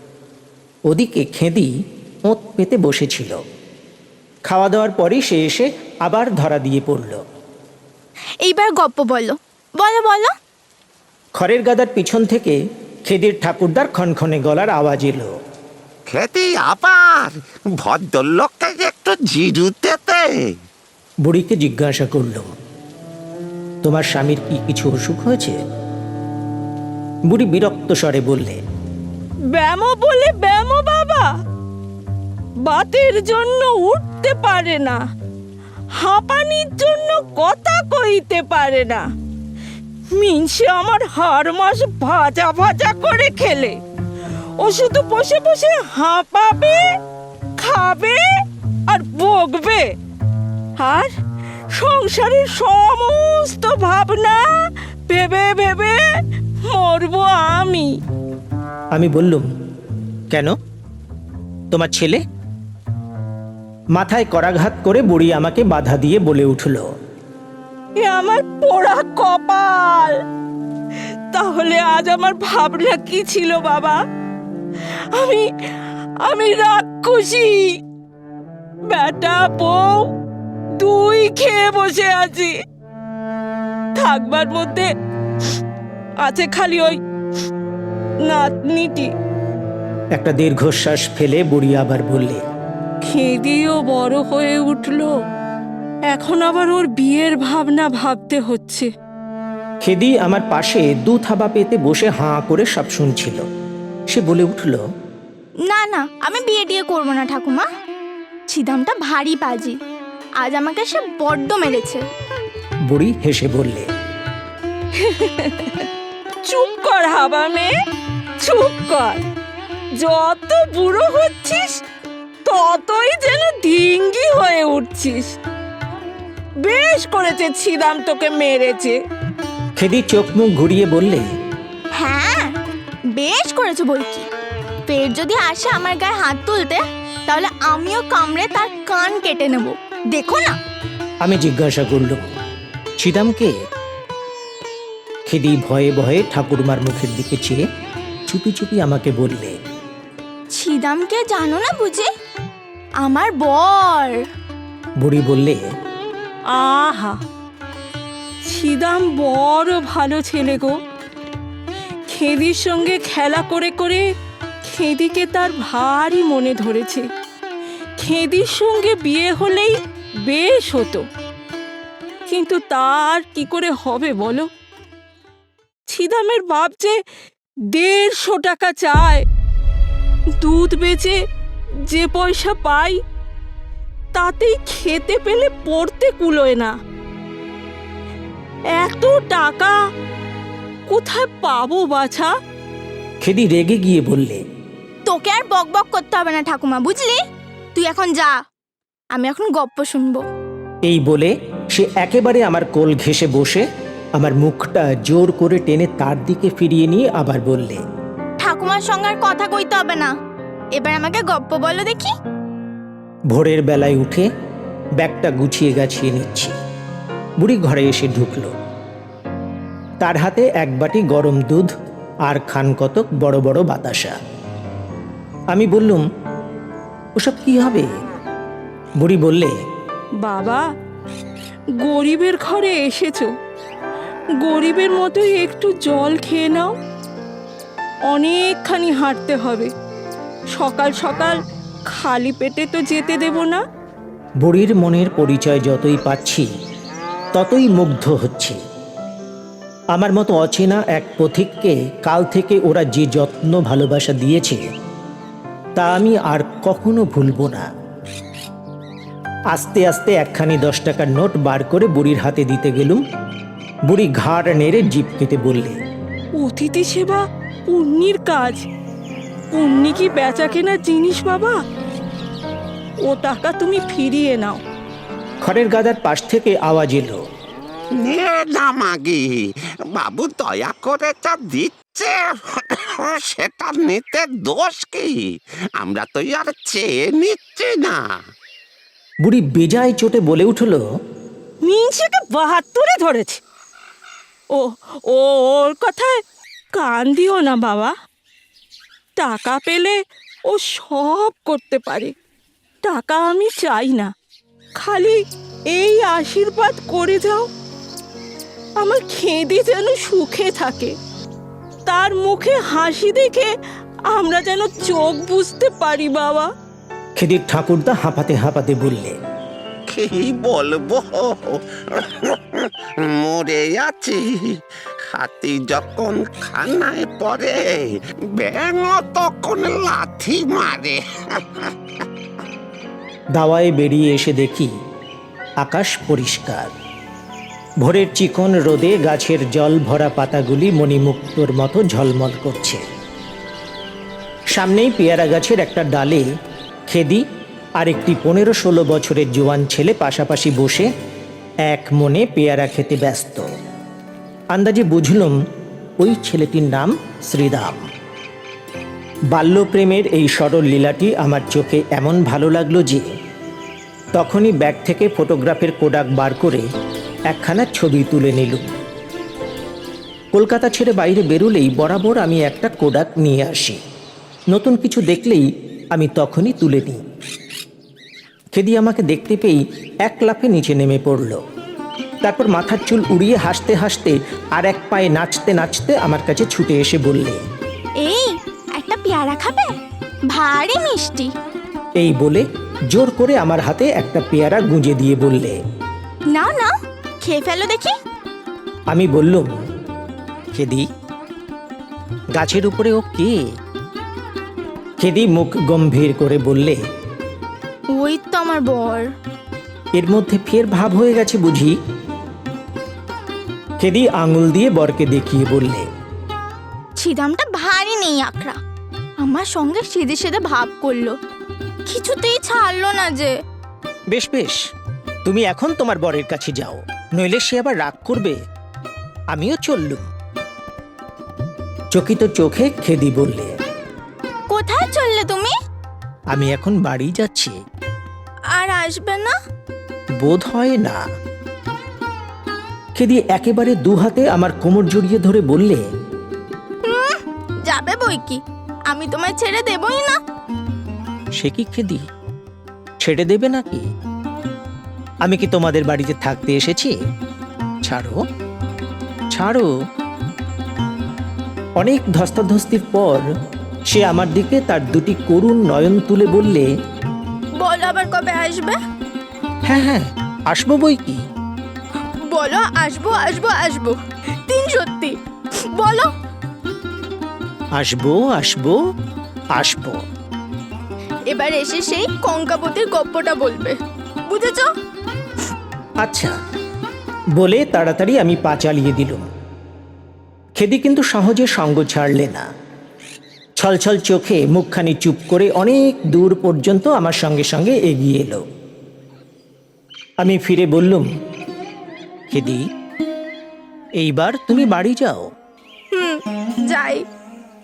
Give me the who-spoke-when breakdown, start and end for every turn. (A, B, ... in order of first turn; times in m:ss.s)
0:00.9-0:01.7 A
0:02.3-0:03.4 A
0:04.5-0:07.2 A
0:08.4-0:10.3 B
0:11.4-0:15.3 A
0:16.1-0:20.6 C
0:21.2-0:22.5 A
0:23.8-0:25.6 A
0:27.3-0:28.6 A
0:29.5-0:31.3 D
0:32.6-0:35.0 D
0:36.0-0:39.0 D
0:40.1-0:43.8 D
0:44.6-0:46.9 D
0:47.6-0:48.3 D
0:48.9-0:49.9 D
0:50.8-0:51.1 D
0:51.7-0:54.5 D
0:55.1-0:56.1 D
0:56.6-0:58.0 D
0:58.9-0:59.4 A
1:01.7-1:02.2 A
1:04.0-1:06.9 A
1:08.0-1:10.2 D
1:11.3-1:14.0 D
1:14.9-1:15.4 D
1:16.2-1:17.7 D
1:18.9-1:20.0 D
1:20.8-1:22.5 D
1:24.0-1:24.9 D
1:26.2-1:27.0 D
1:28.3-1:29.1 D
1:30.2-1:32.4 A
1:33.0-1:35.1 D
1:36.1-1:38.9 D
1:39.8-1:43.4 A
1:44.1-1:44.8 A
1:45.7-1:47.7 B
1:48.5-1:49.8 B
1:50.4-1:52.0 B
1:52.9-1:53.9 A
1:55.0-1:55.9 D
1:56.4-1:57.7 D
1:58.4-1:59.2 D
2:00.0-2:01.8 D
2:02.4-2:05.3 D
2:06.6-2:09.0 D
2:09.8-2:11.2 A
2:12.0-2:12.5 B
2:13.1-2:14.3 B
2:14.9-2:20.6 B
2:21.2-2:22.2 A
2:23.0-2:23.5 A
2:25.3-2:27.6 A
2:28.3-2:29.6 A
2:30.5-2:32.1 B
2:33.0-2:34.2 B
2:35.0-2:35.6 A
2:36.5-2:37.2 D
2:38.5-2:40.8 D
2:42.1-2:44.0 D
2:44.6-2:47.1 D
2:48.0-2:51.0 D
2:52.3-2:54.5 D
2:55.9-2:57.0 D
2:57.7-2:59.2 D
3:00.4-3:01.2 D
3:01.9-3:03.0 D
3:04.1-3:06.7 D
3:08.8-3:09.8 D
3:10.9-3:12.3 D
3:13.2-3:14.4 A
3:15.1-3:17.2 B
3:17.7-3:18.4 B
3:19.1-3:20.2 B
3:20.9-3:23.6 A
3:24.2-3:27.8 A
3:28.4-3:30.1 B
3:30.7-3:32.1 B
3:33.3-3:34.3 A
3:35.0-3:36.5 A
3:37.4-3:38.5 A
3:40.0-3:41.7 A
3:42.3-3:44.2 A
3:45.5-3:46.0 A
3:47.2-3:47.9 A
3:49.0-3:49.5 A
3:50.2-3:50.6 D
3:51.8-3:53.3 D
3:54.4-3:56.7 D
3:58.1-3:59.7 D
4:00.6-4:03.6 D
4:04.4-4:06.5 A
4:07.3-4:08.6 A
4:09.9-4:14.6 A
4:15.8-4:17.7 A
4:19.5-4:23.0 A
4:23.9-4:25.8 A
4:26.4-4:28.6 D
4:29.5-4:31.6 D
4:33.0-4:34.6 D
4:35.4-4:37.2 A
4:37.9-4:48.2 C
4:49.2-4:50.8 A
4:51.6-4:53.4 D
4:54.5-4:56.2 D
4:56.7-4:57.9 D
4:59.2-5:00.0 D
5:00.5-5:02.1 D
5:02.8-5:04.1 D
5:04.8-5:07.5 D
5:08.8-5:10.9 D
5:11.9-5:13.5 D
5:14.1-5:16.5 D
5:17.2-5:19.2 A
5:19.9-5:24.6 C
5:25.1-5:31.7 C
5:33.4-5:34.7 A
5:35.6-5:36.7 A
5:37.8-5:42.8 A
5:44.5-5:46.2 A
5:46.9-5:47.2 A
5:47.8-5:50.9 A
5:51.6-5:53.4 A
5:54.5-5:55.4 A
5:56.0-5:57.8 A
5:59.3-6:03.1 A
6:04.2-6:06.6 A
6:07.3-6:08.7 A
6:10.3-6:13.8 A
6:14.5-6:17.0 A
6:18.6-6:21.4 A
6:22.2-6:27.4 A
6:28.0-6:29.7 B
6:30.3-6:31.3 B
6:32.0-6:35.6 A
6:36.3-6:38.0 B
6:38.9-6:39.5 A
6:40.5-6:40.9 A
6:42.4-6:43.4 A
6:45.0-6:46.8 A
6:47.9-6:49.1 B
6:50.0-6:51.8 A
6:53.8-6:55.9 A
6:57.0-6:58.6 B
6:59.2-7:01.2 B
7:01.8-7:03.3 B
7:04.1-7:04.6 A
7:05.2-7:08.4 A
7:09.3-7:10.1 A
7:11.9-7:13.5 A
7:14.5-7:15.5 B
7:16.3-7:17.6 A
7:18.5-7:19.3 B
7:20.2-7:21.0 A
7:23.0-7:25.8 A
7:26.8-7:30.2 B
7:31.4-7:32.0 A
7:33.0-7:33.8 A
7:35.2-7:36.9 A
7:37.8-7:38.2 A
7:39.3-7:39.7 A
7:41.8-7:43.2 A
7:43.9-7:46.7 A
7:47.6-7:48.8 B
7:49.7-7:51.2 A
7:52.2-7:56.1 B
7:57.8-7:58.8 A
7:59.6-8:00.0 A
8:01.3-8:04.7 B
8:06.0-8:06.3 A
8:07.4-8:09.2 A
8:10.6-8:12.5 A
8:13.6-8:18.4 A
8:20.2-8:21.1 A
8:22.3-8:22.6 A
8:24.0-8:25.3 A
8:25.9-8:27.0 B